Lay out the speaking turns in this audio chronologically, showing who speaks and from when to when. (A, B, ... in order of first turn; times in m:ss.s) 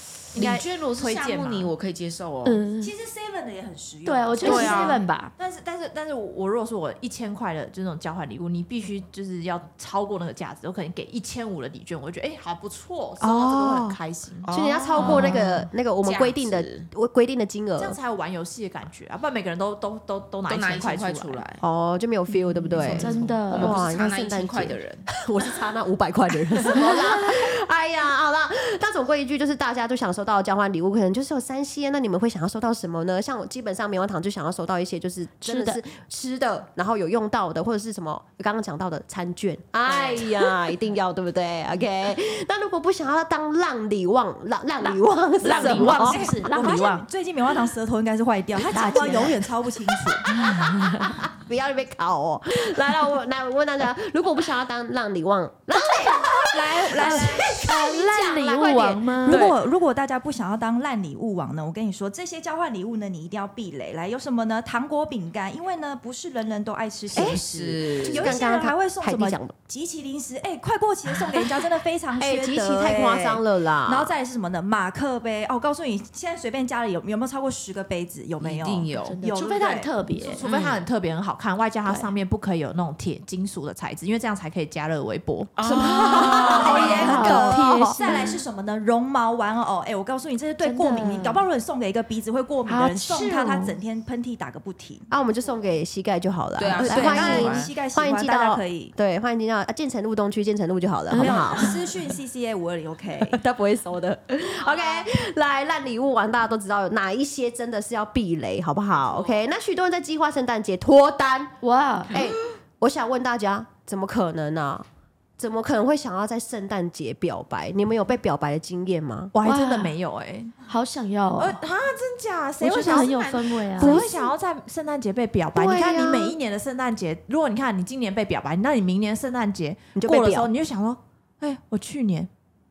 0:00.3-0:01.7 A
0:00.3-0:02.6 B
0:02.4-0:02.9 C
0:02.8-0:15.4 A
0:04.0-0:05.3 C
0:04.4-0:05.0 B
0:04.4-0:04.7 D
0:13.2-0:14.0 D
0:14.4-0:15.4 B
0:14.5-0:18.0 D
0:15.0-0:15.5 C
0:16.0-0:16.9 B
0:17.8-0:21.4 A
0:20.5-0:21.6 B
0:21.6-0:46.3 D
0:22.7-0:23.4 A
0:22.8-0:25.1 B
0:22.9-0:23.8 C
0:26.7-0:27.2 C
0:35.4-0:35.8 C
0:44.9-0:47.1 C
0:45.6-0:50.4 E
0:48.6-0:49.4 C
0:50.3-0:59.5 D
0:50.5-0:51.1 C
0:56.5-0:57.6 E
0:56.9-0:57.3 A
0:57.0-0:59.5 C
0:59.2-1:19.9 E
1:07.1-1:07.4 D
1:07.2-1:08.4 B
1:08.0-1:09.5 D
1:12.2-1:14.1 D
1:18.4-1:19.2 B
1:19.0-1:20.4 C
1:19.3-1:25.6 A
1:20.4-1:20.8 B
1:25.6-1:27.3 B
1:25.7-1:35.1 E
1:25.7-1:28.4 C
1:26.6-1:28.0 D
1:26.7-1:27.2 A
1:30.6-1:31.4 C
1:32.7-1:33.8 C
1:35.1-1:41.7 D
1:36.6-1:37.7 B
1:36.8-1:38.9 E
1:41.1-1:41.7 C
1:41.2-1:43.4 E
1:43.2-1:51.6 D
1:44.7-1:45.0 A
1:49.0-1:49.4 A
1:51.6-1:52.2 C
1:52.1-1:54.9 D
1:55.4-1:59.3 D
1:59.3-2:00.6 A
1:59.4-1:59.9 C
2:00.7-2:01.6 C
2:01.4-2:12.3 A
2:02.6-2:04.1 C
2:02.8-2:03.3 B
2:03.8-2:04.3 D
2:05.5-2:06.4 D
2:10.0-2:10.5 D